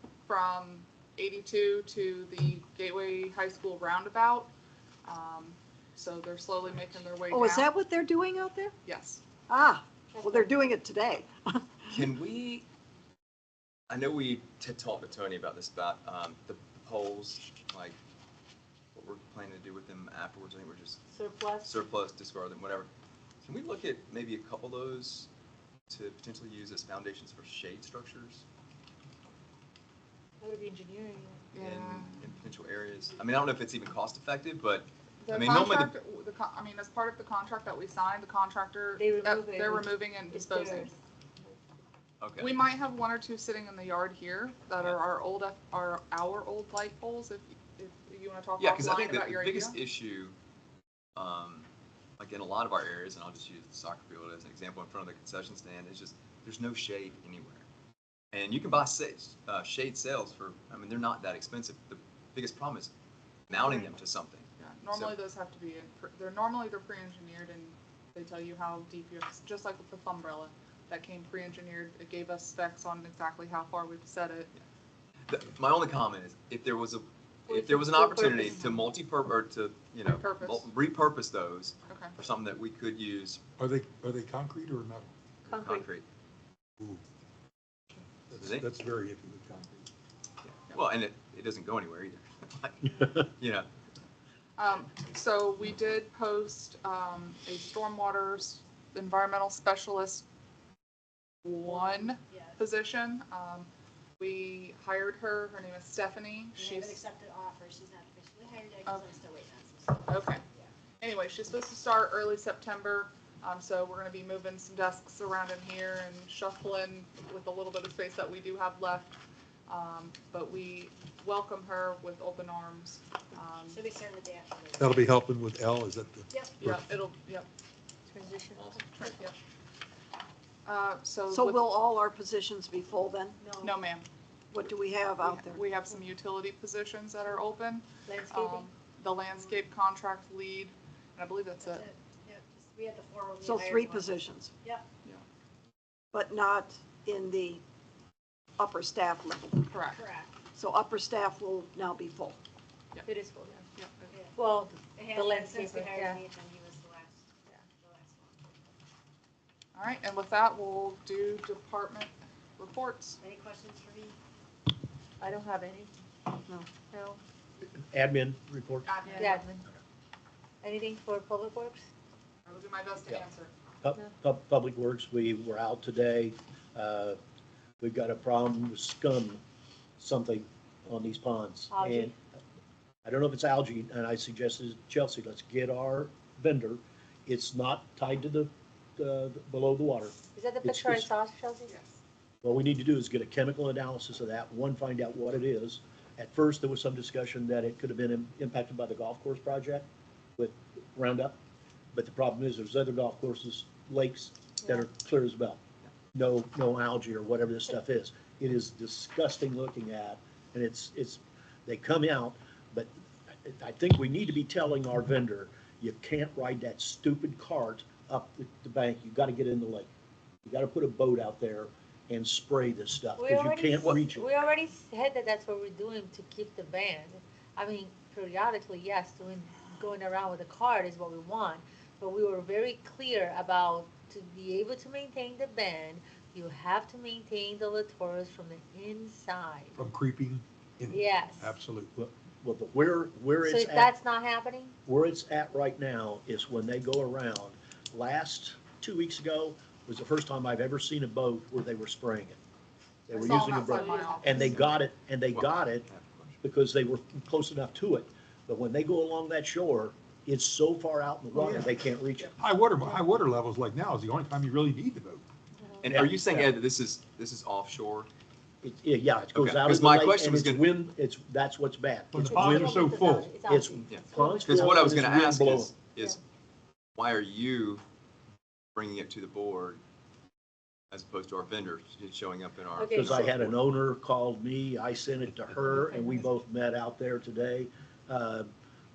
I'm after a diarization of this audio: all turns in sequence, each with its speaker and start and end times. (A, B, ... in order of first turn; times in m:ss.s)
0:00.2-0:04.5 A
0:05.0-0:07.7 A
0:07.3-0:08.7 B
0:08.8-0:09.2 A
0:09.5-0:11.9 B
0:10.1-0:10.5 C
0:11.9-0:12.6 D
0:13.9-0:18.0 D
0:18.9-0:21.0 D
0:21.1-0:21.7 C
0:21.6-0:22.9 D
0:23.4-0:25.3 D
0:25.9-0:28.4 D
0:30.4-0:31.5 C
0:31.5-0:32.2 A
0:31.6-0:35.9 D
0:35.2-0:40.9 A
0:39.0-0:40.9 C
0:42.2-0:42.6 D
0:42.4-0:49.8 A
0:48.6-0:50.4 D
0:51.2-0:57.6 D
0:58.3-1:02.9 D
1:03.5-1:05.2 D
1:04.6-1:14.5 A
1:15.3-1:23.4 D
1:17.5-1:18.7 C
1:20.0-1:20.7 A
1:21.9-1:22.1 A
1:23.6-1:25.1 E
1:25.4-1:26.0 D
1:25.5-1:25.9 C
1:28.3-1:29.9 E
1:28.4-1:28.7 D
1:30.4-1:33.7 D
1:34.6-1:40.2 A
1:41.4-1:47.0 A
1:41.6-1:42.6 F
1:46.6-1:50.7 F
1:48.8-1:49.2 A
1:50.0-1:50.4 A
1:51.0-2:03.8 A
2:03.7-2:05.1 F
2:04.8-2:06.8 E
2:06.6-2:07.5 A
2:08.1-2:09.2 C
2:08.6-2:08.8 D
2:08.9-2:09.3 A
2:10.6-2:11.6 A
2:11.3-2:13.4 B
2:13.4-2:13.8 F
2:13.6-2:14.0 A
2:14.5-2:15.6 B
2:15.2-2:21.9 A
2:18.0-2:18.7 C
2:21.6-2:24.8 F
2:23.4-2:24.5 B
2:26.1-2:27.6 B
2:28.6-2:29.7 B
2:29.7-2:30.0 A
2:29.9-2:30.4 F
2:30.5-2:32.4 B
2:33.0-2:33.6 C
2:33.8-2:34.1 A
2:34.1-2:38.4 F
2:34.4-2:36.2 C
2:39.7-2:43.2 A
2:43.2-2:44.2 F
2:45.2-2:45.9 C
2:46.8-2:47.2 C
2:47.8-2:48.9 G
2:48.8-2:49.4 A
2:49.0-2:49.7 C
2:50.6-2:51.8 C
2:52.4-2:53.5 A
2:53.8-2:57.2 G
2:57.8-2:59.4 G
3:00.0-3:02.2 G
3:01.7-3:02.1 C
3:03.0-3:11.1 G
3:10.3-3:11.8 C
3:11.7-3:12.0 A
3:12.4-3:21.4 G
3:21.9-3:25.6 G
3:24.6-3:24.9 C
3:26.1-3:32.9 G
3:33.4-3:39.9 G
3:40.4-3:44.3 G
3:43.2-3:59.8 C
3:59.8-4:01.9 E
4:00.9-4:01.6 C
4:02.0-4:03.9 G
4:03.4-4:04.8 C
4:04.8-4:12.4 G
4:13.1-4:15.9 G
4:13.1-4:14.5 F
4:13.2-4:14.6 A
4:15.3-4:16.4 D
4:16.4-4:22.3 G
4:21.3-4:21.7 E
4:22.4-4:25.2 E
4:25.6-4:25.9 C
4:25.8-4:28.1 D
4:25.9-4:26.5 G
4:28.6-4:32.9 G
4:29.3-4:30.7 D
4:32.1-4:33.3 E
4:32.2-4:35.0 C
4:33.5-4:35.7 G
4:33.9-4:36.2 D
4:37.0-4:37.8 D
4:38.7-4:39.8 D
4:40.9-4:43.5 D
4:42.8-4:43.5 C
4:42.9-4:48.5 G
4:45.7-4:46.2 C